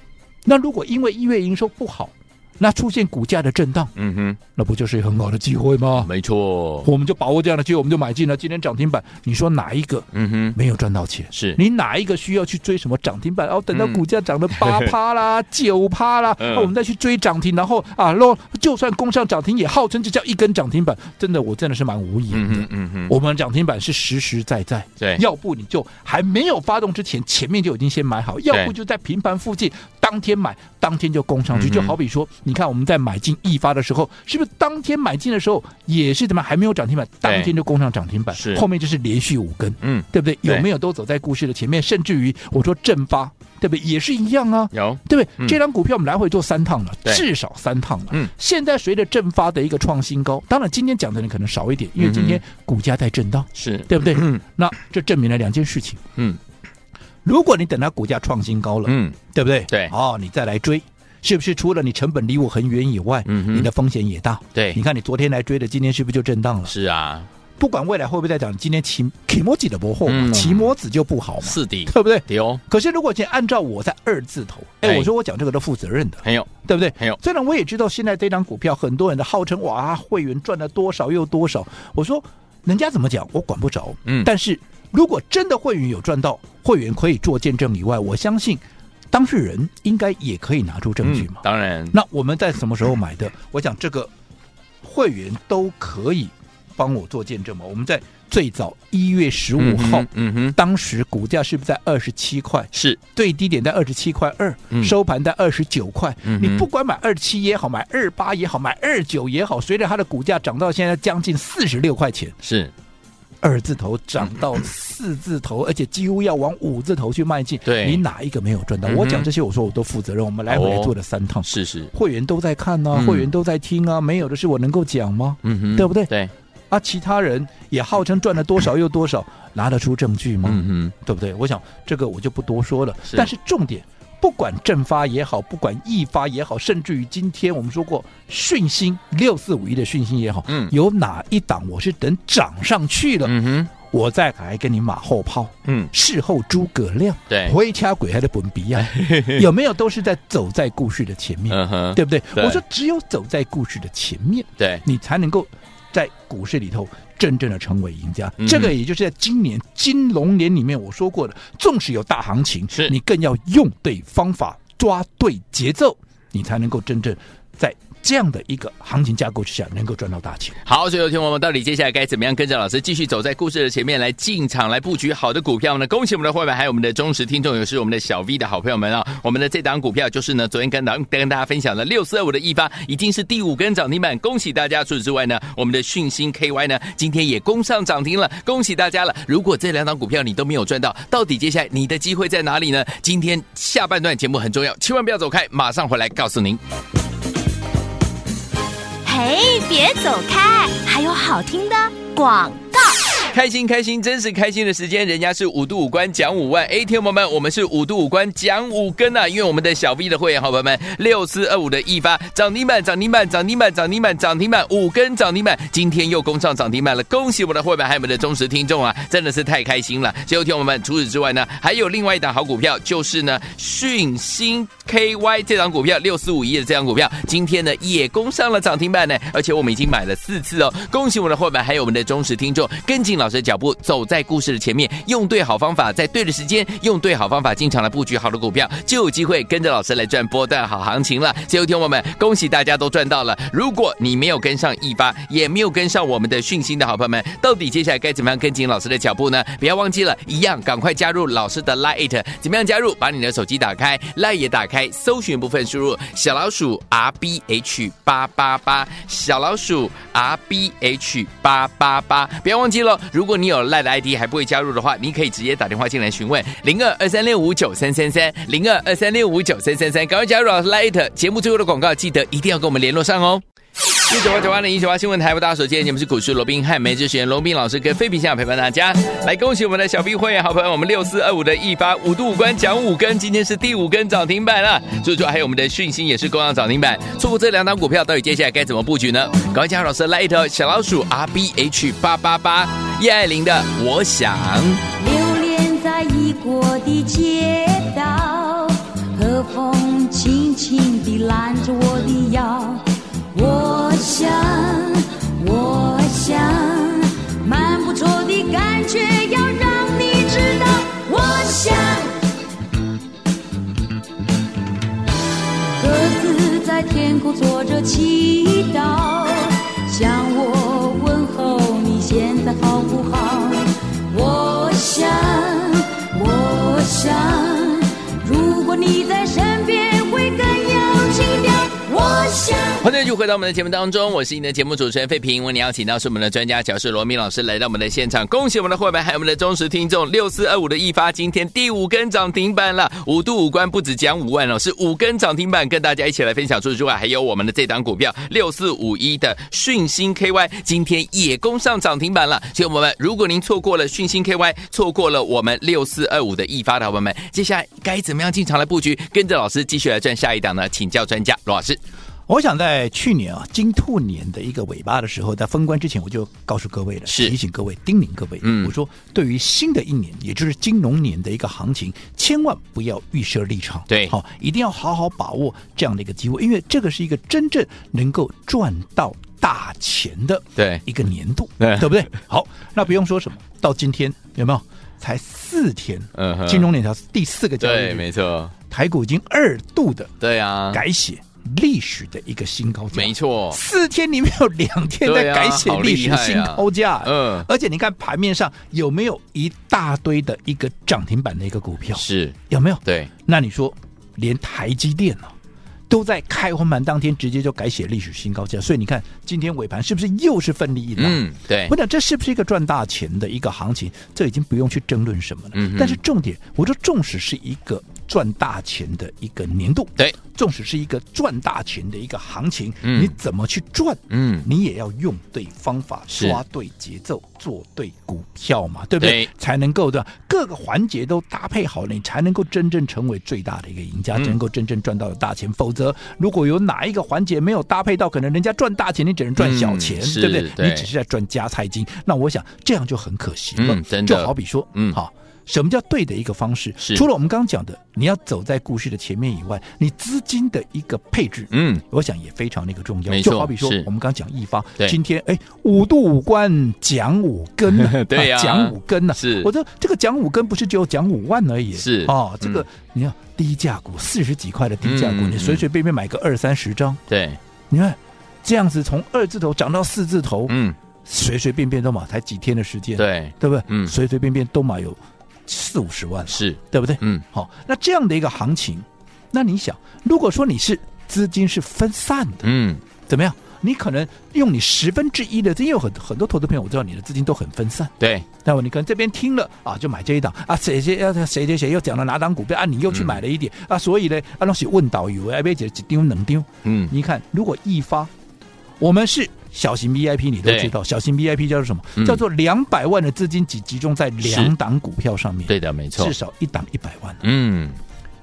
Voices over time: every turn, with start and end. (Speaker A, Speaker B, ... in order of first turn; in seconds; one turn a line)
Speaker A: 0.5-3.9
Speaker B: 4.0-4.4
Speaker A: 4.5-6.1
Speaker B: 6.0-6.9
Speaker A: 6.8-56.0
Speaker B: 10.1-10.6
Speaker B: 11.3-11.6
Speaker B: 13.7-14.0
Speaker B: 14.5-14.9
Speaker B: 16.4-16.7
Speaker B: 22.3-23.1
Speaker B: 31.5-31.9
Speaker B: 37.2-37.5
Speaker B: 38.3-38.6
Speaker B: 39.8-40.6
Speaker B: 44.7-45.6
Speaker B: 52.0-52.4
Speaker B: 53.5-54.4
Speaker A: 57.2-66.7
Speaker B: 58.8-59.2
Speaker B: 63.2-63.7
Speaker B: 64.5-64.8
Speaker B: 66.7-67.3
Speaker A: 67.6-94.1
Speaker B: 70.0-70.7
Speaker B: 71.4-72.6
Speaker B: 74.8-75.1
Speaker B: 76.2-77.2
Speaker B: 91.0-91.9
Speaker A: 94.8-112.3
Speaker B: 99.6-100.5
Speaker B: 102.7-103.0
Speaker B: 106.2-106.6
Speaker B: 112.4-112.7
Speaker A: 113.4-126.1
Speaker B: 117.6-118.0
Speaker B: 118.8-119.3
Speaker B: 120.5-120.9
Speaker B: 121.5-121.9
Speaker B: 122.9-123.3
Speaker B: 125.4-126.3
Speaker A: 126.7-170.6
Speaker B: 130.4-130.9
Speaker B: 140.5-140.7
Speaker B: 143.2-143.7
Speaker B: 147.3-147.5
Speaker B: 148.8-149.4
Speaker B: 151.5-152.6
Speaker B: 154.6-154.8
Speaker B: 158.4-158.7
Speaker B: 170.7-196.6
Speaker C: 199.0-203.0
Speaker B: 203.3-273.4
Speaker B: 274.1-294.8
Speaker D: 295.0-312.2
Speaker D: 315.8-332.9
Speaker B: 332.8-361.8
Speaker A: 362.3-388.1
Speaker B: 367.1-367.3
Speaker B: 368.4-368.7
Speaker B: 373.9-374.1
Speaker B: 380.6-380.8
Speaker B: 381.6-382.0
Speaker B: 386.1-386.7
Speaker B: 387.6-388.5
Speaker A: 388.7-390.1
Speaker B: 390.2-390.8
Speaker A: 390.7-405.3
Speaker B: 392.9-393.6
Speaker B: 395.0-397.5
Speaker B: 401.9-403.1
Speaker A: 405.9-467.0
Speaker B: 411.0-411.7
Speaker B: 415.5-416.0
Speaker B: 422.8-423.1
Speaker B: 424.1-424.4
Speaker B: 426.1-426.4
Speaker B: 429.0-429.3
Speaker B: 439.4-440.9
Speaker B: 443.6-445.0
Speaker B: 446.8-447.0
Speaker B: 451.5-451.8
Speaker B: 453.1-453.9
Speaker B: 457.7-459.5
Speaker B: 461.8-462.6
Speaker B: 464.8-465.6
Speaker B: 467.1-467.4
Speaker A: 467.7-482.5
Speaker B: 470.5-470.8
Speaker B: 473.0-473.9
Speaker B: 476.3-477.2
Speaker B: 482.4-482.8
Speaker A: 483.1-498.1
Speaker B: 488.0-488.2
Speaker B: 492.9-493.2
Speaker B: 496.6-496.9
Speaker A: 498.8-507.2
Speaker B: 500.4-500.7
Speaker B: 502.0-502.2
Speaker B: 504.2-504.5
Speaker B: 505.5-506.1
Speaker B: 507.2-507.8